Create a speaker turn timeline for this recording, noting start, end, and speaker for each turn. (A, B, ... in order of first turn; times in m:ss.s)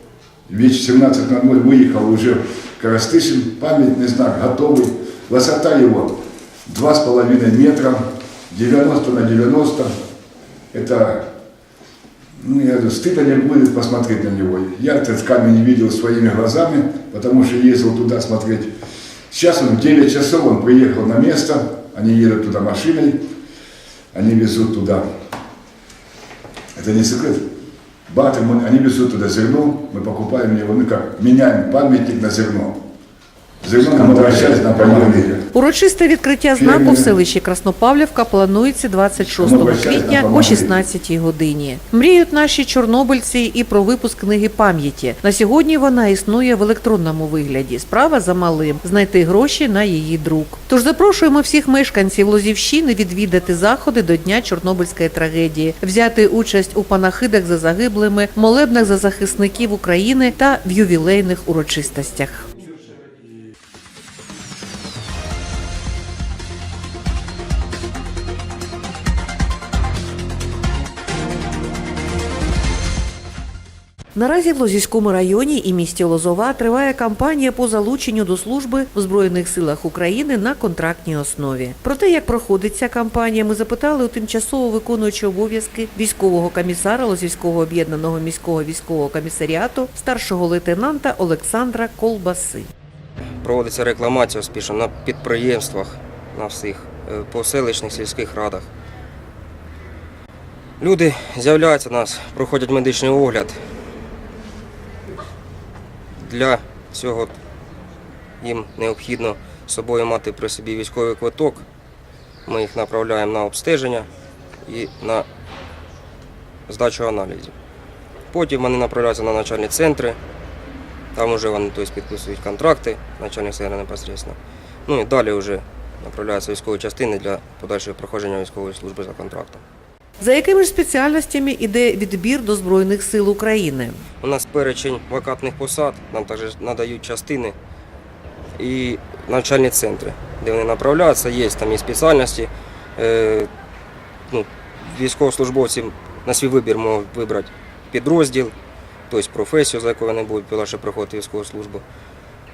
0:00.5-0:09.9 A
0:10.7-0:11.3 A
0:12.4-0:18.7 A
0:19.3-0:23.2 A
0:24.1-0:25.0 A
0:26.8-0:27.4 A
0:28.1-0:32.8 A
0:33.6-0:35.4 A
0:35.5-1:02.5 B
0:36.6-0:37.1 A
0:39.3-0:40.7 A
1:14.2-1:32.7 B
1:33.4-1:38.7 C
1:40.8-1:43.6 C
1:46.2-1:47.4 C
1:48.4-1:51.6 C
1:52.5-1:54.1 C
1:54.7-1:55.3 C
1:56.7-1:57.5 C
1:58.3-2:00.2 C
2:01.1-2:09.6 C
2:10.2-2:14.0 B
2:14.2-2:17.6 C
2:18.6-2:23.5 C
2:24.3-2:28.6 C
2:29.1-2:31.8 C